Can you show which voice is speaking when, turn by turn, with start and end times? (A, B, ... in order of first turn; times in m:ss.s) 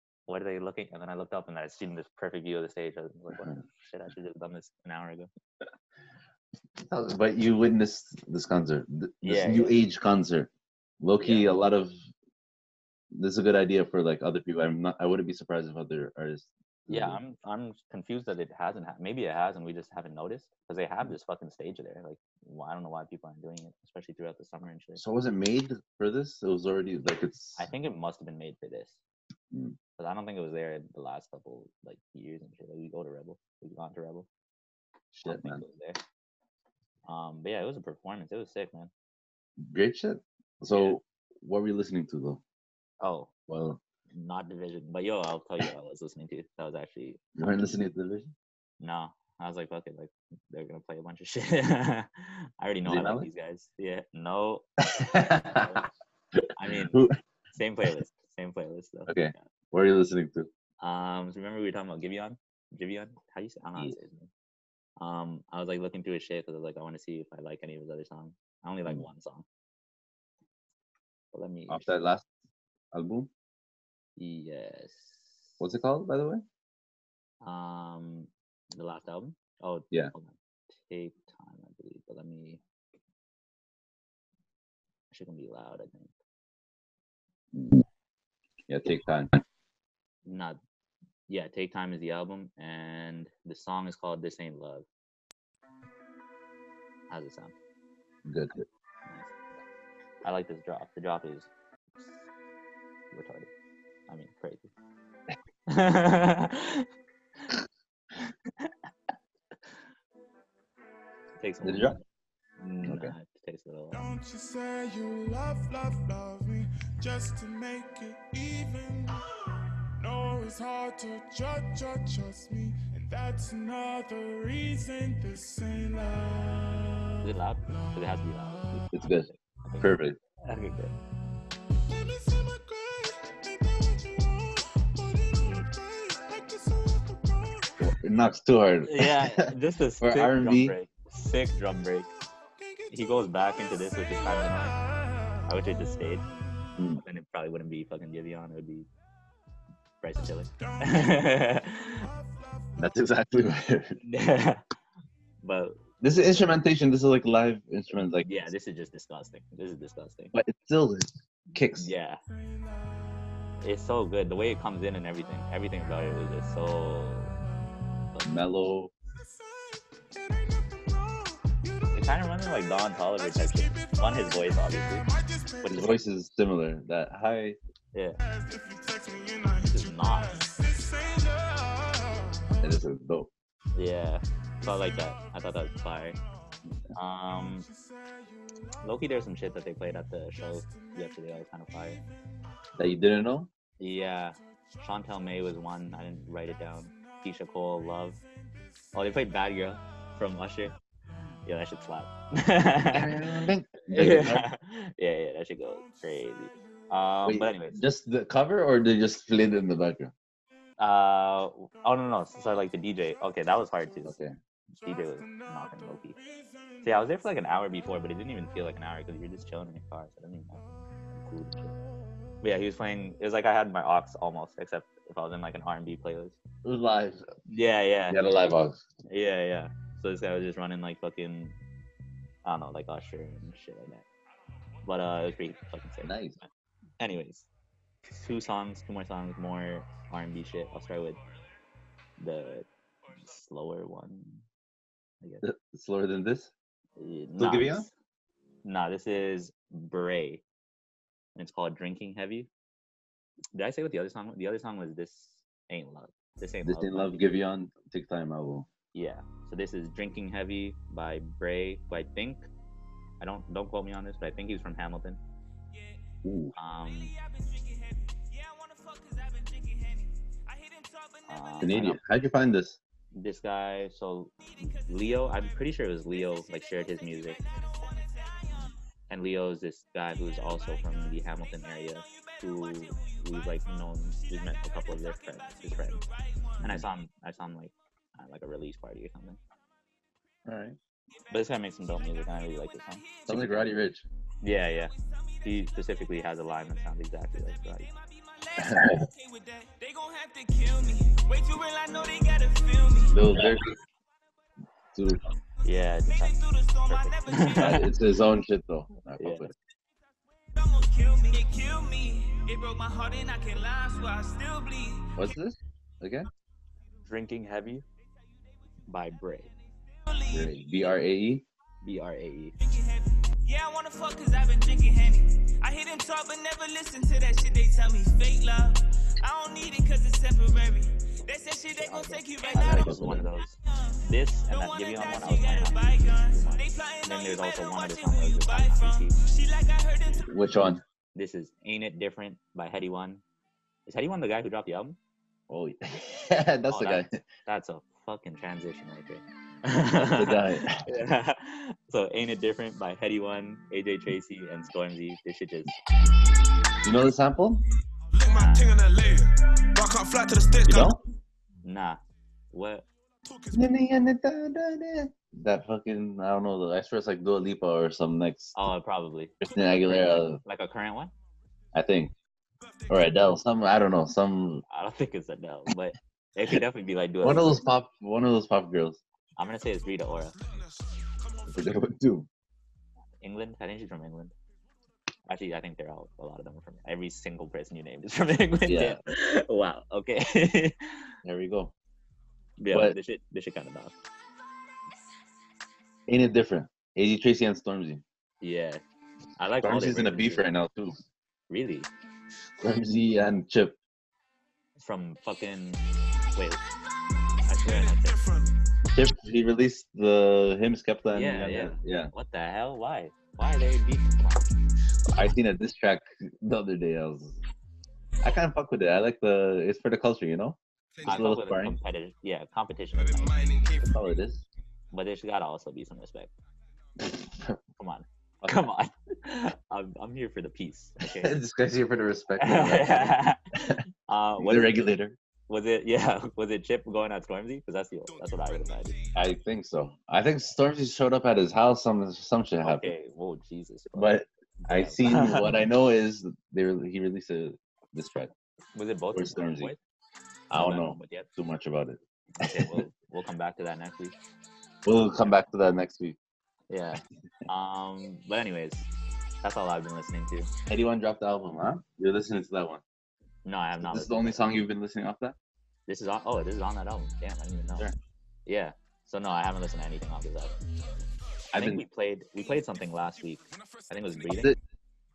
0:00.3-0:05.3 A
0:03.3-0:03.6 B
0:06.8-0:10.5 B
0:09.2-0:09.8 A
0:11.0-0:11.9 B
0:11.2-0:11.5 A
0:13.1-0:17.2 B
0:16.9-0:25.0 A
0:25.0-0:27.7 B
0:27.6-0:29.0 A
0:30.0-0:34.3 A
0:35.1-0:35.6 B
0:35.2-0:36.0 A
0:37.0-0:38.9 A
0:39.6-0:42.4 B
0:43.0-0:43.3 A
0:43.5-0:43.8 B
0:44.1-0:47.2 A
0:47.4-0:48.3 B
0:48.8-0:54.7 A
0:52.8-0:53.3 B
0:54.9-0:55.7 B
0:55.5-0:55.8 A
0:56.5-0:59.4 A
0:56.6-0:57.2 B
0:59.1-1:00.5 B
1:00.8-1:04.3 A
1:05.0-1:09.4 A
1:11.3-1:11.9 A
1:11.7-1:12.3 B
1:12.9-1:13.3 B
1:14.2-1:15.6 A
1:15.6-1:16.4 B
1:17.4-1:22.6 A
1:25.1-1:26.1 A
1:27.5-1:27.8 B
1:28.7-1:29.4 B
1:30.2-1:30.6 A
1:31.3-1:34.8 A
1:37.1-1:37.5 A
1:38.2-1:38.6 B
1:39.1-1:39.3 A
1:40.2-1:41.5 A
1:43.1-1:43.5 A
1:44.1-1:44.7 A
1:45.7-1:46.9 A
1:51.4-1:52.0 A
1:51.6-1:52.0 B
1:52.6-1:54.1 A
1:52.8-1:53.1 B
1:53.9-1:59.2 C
2:00.0-2:07.0 C
2:07.2-2:10.9 A
2:08.9-2:09.3 B
2:09.8-2:10.2 B
2:11.9-2:17.7 C
2:15.4-2:15.6 A
2:17.8-2:19.5 B
2:18.8-2:22.1 A
2:20.0-2:20.8 B
2:22.9-2:24.7 A
2:24.1-2:24.7 C
2:25.5-2:26.2 A
2:26.8-2:27.0 B
2:27.0-2:28.9 A
2:30.0-2:32.0 A
2:30.6-2:32.9 C
2:32.8-2:34.0 B
2:34.0-2:34.6 A
2:35.4-2:36.5 A
2:36.0-2:38.3 B
2:38.2-2:40.3 A
2:40.3-2:41.9 B
2:41.8-2:42.2 A
2:42.3-2:43.1 C
2:43.6-2:47.3 A
2:48.2-2:48.9 B
2:50.2-2:56.0 C
2:51.9-2:55.0 A
2:55.6-2:57.6 B
2:57.9-2:58.2 A
2:58.2-3:02.8 C
2:59.6-3:00.5 A
3:02.6-3:03.3 B
3:03.7-3:06.2 A
3:04.7-3:05.7 C
3:06.9-3:07.7 A
3:07.4-3:08.6 C
3:08.8-3:12.0 A
3:10.4-3:12.0 C
3:12.8-3:13.5 B
3:13.8-3:18.2 A
3:18.9-3:20.8 A
3:21.4-3:23.4 A
3:22.9-3:24.5 B
3:23.9-3:27.8 A
3:25.8-3:26.5 C
3:27.2-3:30.1 B
3:30.8-3:34.2 A
3:34.0-3:34.3 B
3:34.8-3:36.2 A
3:34.8-3:36.8 C
3:36.8-3:40.6 A
3:41.1-3:41.7 A
3:42.4-3:46.4 A
3:46.6-3:47.2 B
3:47.5-3:48.2 A
3:48.1-3:48.8 B
3:49.1-3:51.6 A
3:52.4-3:54.0 A
3:54.8-3:56.5 A
3:56.0-3:56.4 B
3:57.0-3:57.5 A
3:58.1-4:01.2 A
4:02.2-4:04.4 A
4:05.4-4:06.5 B
4:07.0-4:07.9 A
4:07.4-4:07.9 B
4:08.6-4:10.4 A
4:11.4-4:12.5 A
4:13.5-4:17.2 A
4:16.6-4:18.7 B
4:18.9-4:22.5 A
4:23.2-4:25.2 A
4:25.7-4:26.1 D
4:26.2-4:26.5 B
4:26.6-4:27.1 A
4:26.8-4:31.9 D
4:31.3-4:32.0 A
4:31.6-4:32.8 B
4:33.1-4:37.4 A
4:34.4-4:38.6 D
4:39.1-4:46.0 A
4:40.6-4:46.8 D
4:46.6-4:49.4 A
4:50.4-4:50.8 B
4:51.1-4:53.6 D
4:51.3-4:53.7 A
4:53.3-4:54.0 B
4:54.4-4:54.9 A
4:54.7-5:03.4 D
4:55.4-4:57.9 A
4:58.6-4:59.0 B
5:03.1-5:03.7 B
5:04.9-5:05.2 B
5:05.6-5:07.9 A
5:06.0-5:08.1 D
5:07.6-5:09.5 B
5:09.2-5:09.5 A
5:10.5-5:15.3 D
5:15.2-5:16.3 B
5:17.0-5:17.8 A
5:18.9-5:19.5 A
5:19.7-5:20.9 D
5:20.3-5:21.4 B
5:21.8-5:22.6 A
5:22.6-5:40.4 D
5:31.7-5:39.2 A
5:32.5-5:33.3 B
5:40.1-5:40.8 B
5:41.1-5:43.2 A
5:43.9-5:45.0 A
5:45.5-5:47.2 B
5:46.7-5:55.8 A
5:50.0-5:50.8 B
5:56.8-5:57.6 B
5:58.1-6:00.9 E
5:58.3-5:58.8 A
6:00.6-6:01.0 B
6:01.6-6:02.0 A
6:02.5-6:02.9 A
6:03.2-6:03.6 E
6:03.5-6:08.5 B
6:08.5-6:11.1 A
6:09.4-6:10.4 B
6:11.7-6:12.1 B
6:12.6-6:13.3 E
6:12.9-6:14.6 B
6:14.7-6:17.6 A
6:17.2-6:19.0 B
6:19.4-6:20.4 A
6:20.0-6:21.7 E
6:21.5-6:22.3 B
6:23.2-6:24.3 A
6:25.3-6:31.1 A
6:28.6-6:29.0 B
6:31.2-6:31.7 B
6:32.6-6:33.9 A
6:32.6-6:33.0 B
6:36.1-6:38.0 B
6:38.4-6:38.8 A
6:39.4-6:40.5 A
6:39.6-6:41.0 B
6:41.5-6:41.9 A
6:42.6-6:43.8 B
6:44.8-6:45.8 A
6:46.4-6:46.6 A
6:47.5-6:48.2 A
6:47.6-6:48.5 E
6:48.9-6:52.1 B
6:51.1-6:54.4 A
6:55.1-6:57.4 B
6:58.2-7:01.8 B
7:01.0-7:03.6 A
7:03.0-7:03.9 E
7:03.8-7:04.4 B
7:04.9-7:06.3 A
7:07.2-7:07.6 B
7:07.8-7:11.4 A
7:11.0-7:13.8 B
7:12.4-7:13.4 A
7:14.1-7:14.8 A
7:14.4-7:15.2 B
7:15.5-7:19.0 A
7:18.1-7:19.1 E
7:19.1-7:22.9 B
7:22.6-7:25.6 A
7:23.9-7:28.3 B
7:28.7-7:29.8 A
7:29.1-7:29.7 B
7:30.5-7:32.8 B
7:30.5-7:31.3 A
7:32.4-7:34.2 A
7:34.8-7:36.2 B
7:36.7-7:38.9 A
7:39.4-7:40.5 A
7:40.7-7:42.8 B
7:43.4-7:44.5 A
7:43.8-7:45.3 B
7:45.9-7:47.9 A
7:48.4-7:50.5 A
7:51.5-7:51.8 B
7:51.5-7:54.5 A
7:53.4-7:54.5 E
7:54.3-7:54.6 B